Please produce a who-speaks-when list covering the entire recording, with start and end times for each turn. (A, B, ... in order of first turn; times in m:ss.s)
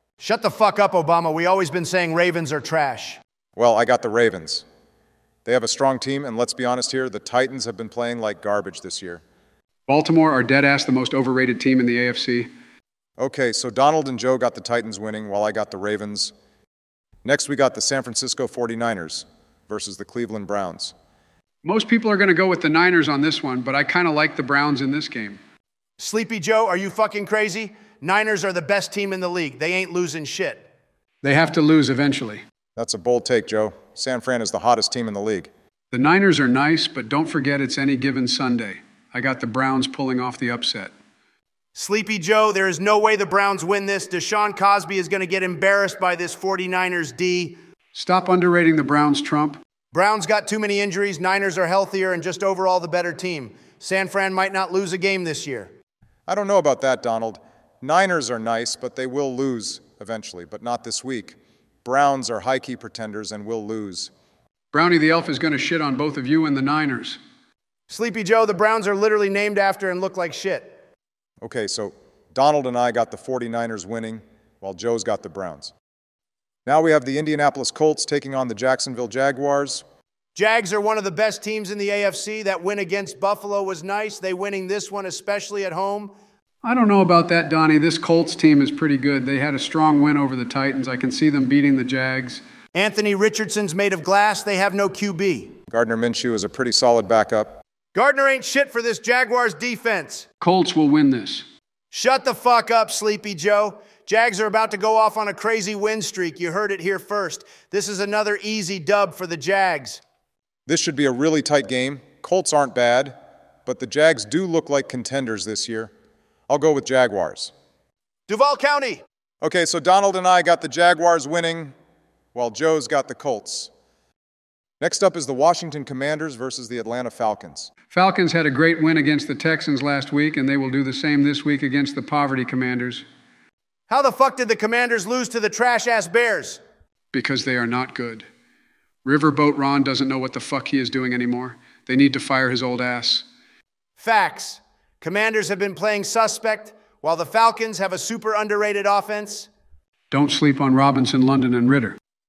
0:00.2-0:03.2 A
0:03.6-0:04.6 B
0:05.4-0:09.2 B
0:09.9-0:12.5 C
0:13.2-0:16.3 B
0:17.2-0:20.9 B
0:21.6-0:25.4 C
0:26.0-0:30.6 A
0:31.2-0:32.4 C
0:32.8-0:35.5 B
0:35.9-0:40.9 C
0:41.7-0:47.6 A
0:47.9-0:49.6 C
0:49.9-0:55.7 A
0:56.3-1:04.1 B
1:04.7-1:07.2 C
1:07.9-1:10.7 A
1:11.4-1:15.7 B
1:16.6-1:19.8 B
1:20.3-1:26.1 A
1:26.6-1:32.4 C
1:32.7-1:35.6 A
1:35.7-1:37.6 B
1:37.9-1:40.2 A
1:40.4-1:41.4 C
1:41.9-1:50.0 A
1:50.7-1:55.9 B
1:56.5-1:57.5 B
1:58.3-1:59.0 A
1:59.4-2:01.7 B
2:02.3-2:03.7 B
2:04.8-2:07.7 B
2:07.9-2:13.0 C
2:13.9-2:16.6 A
2:17.1-2:18.2 C
2:19.0-2:23.2 C
2:24.0-2:29.5 A
2:30.1-2:32.0 C